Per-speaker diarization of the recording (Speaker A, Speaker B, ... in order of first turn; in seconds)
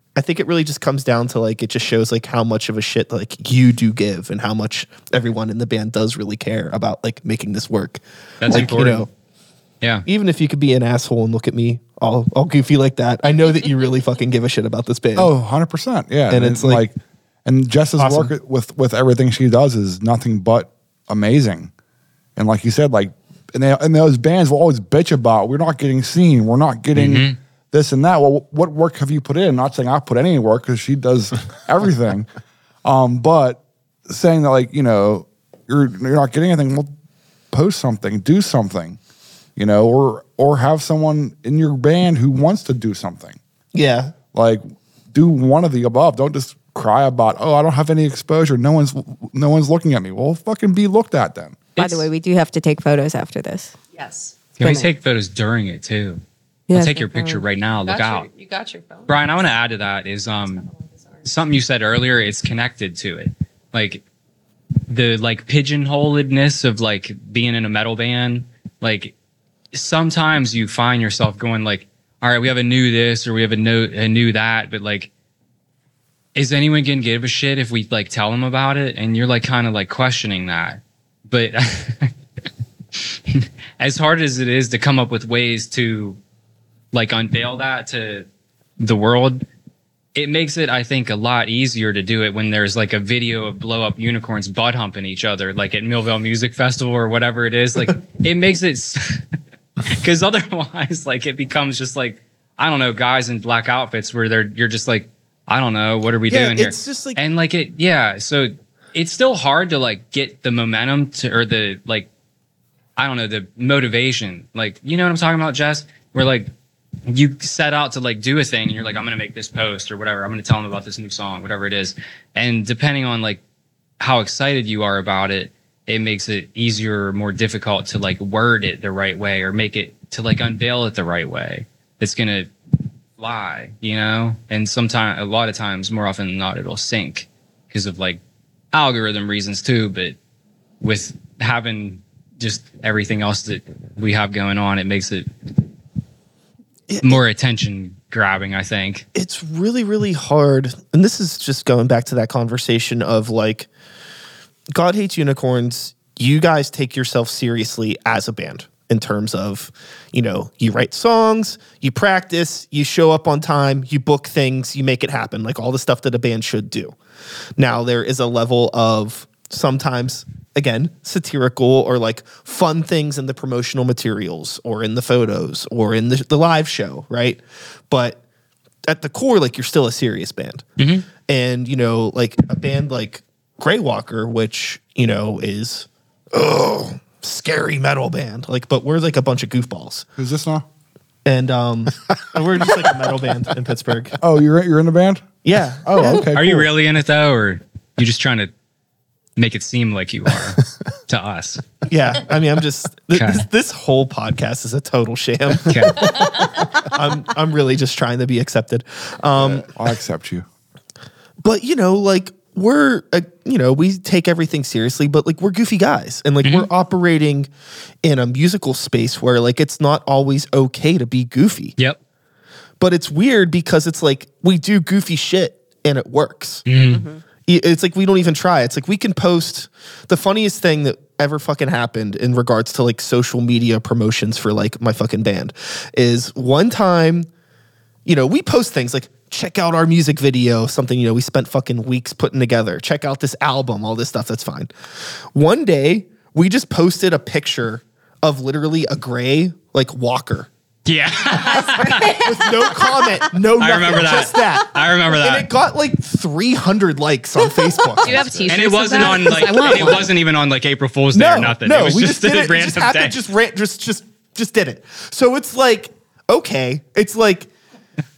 Speaker A: 0.1-9.1, 10.1-15.3, 16.3-16.8, 18.0-18.3, 43.7-44.1, 106.3-107.2, 146.9-147.2, 149.1-153.7, 154.7-166.9, 167.6-178.2, 178.9-180.7, 181.2-190.1, 191.2-194.2, 195.4-196.2, 201.9-209.7, 211.4-217.5, 218.0-221.8, 222.8-226.6, 227.5-237.3, 238.0-244.7, 245.3-250.5, 251.9-260.1, 261.1-267.5
Speaker B: 8.4-9.1, 26.9-27.4, 51.8-52.1, 54.6-58.3, 59.1-60.6, 61.2-64.0, 64.9-69.1, 69.7-75.1, 76.3-82.1, 83.0-86.2, 86.9-88.3, 88.8-89.4, 90.1-99.2, 99.9-112.1, 113.0-116.5, 117.1-123.4, 124.0-132.5, 133.2-138.2, 138.7-140.2, 140.8-145.3, 147.0-149.1, 180.8-181.1, 196.3-198.5, 199.4-201.6, 203.1-203.4, 205.7-206.2, 216.4-216.7, 226.7-227.0, 250.8-252.2, 253.6-255.5, 258.5-263.2
Speaker C: 15.2-16.9, 17.4-21.7, 22.4-32.3, 32.8-36.9, 37.5-39.0, 39.5-43.4, 44.3-51.7, 190.2-190.6, 194.2-196.7, 209.6-210.4
Speaker D: 51.8-53.8, 54.6-54.9, 56.7-57.4, 226.9-227.2, 251.4-253.1
Speaker E: 53.9-54.4, 57.9-59.4, 60.5-61.3, 258.0-260.1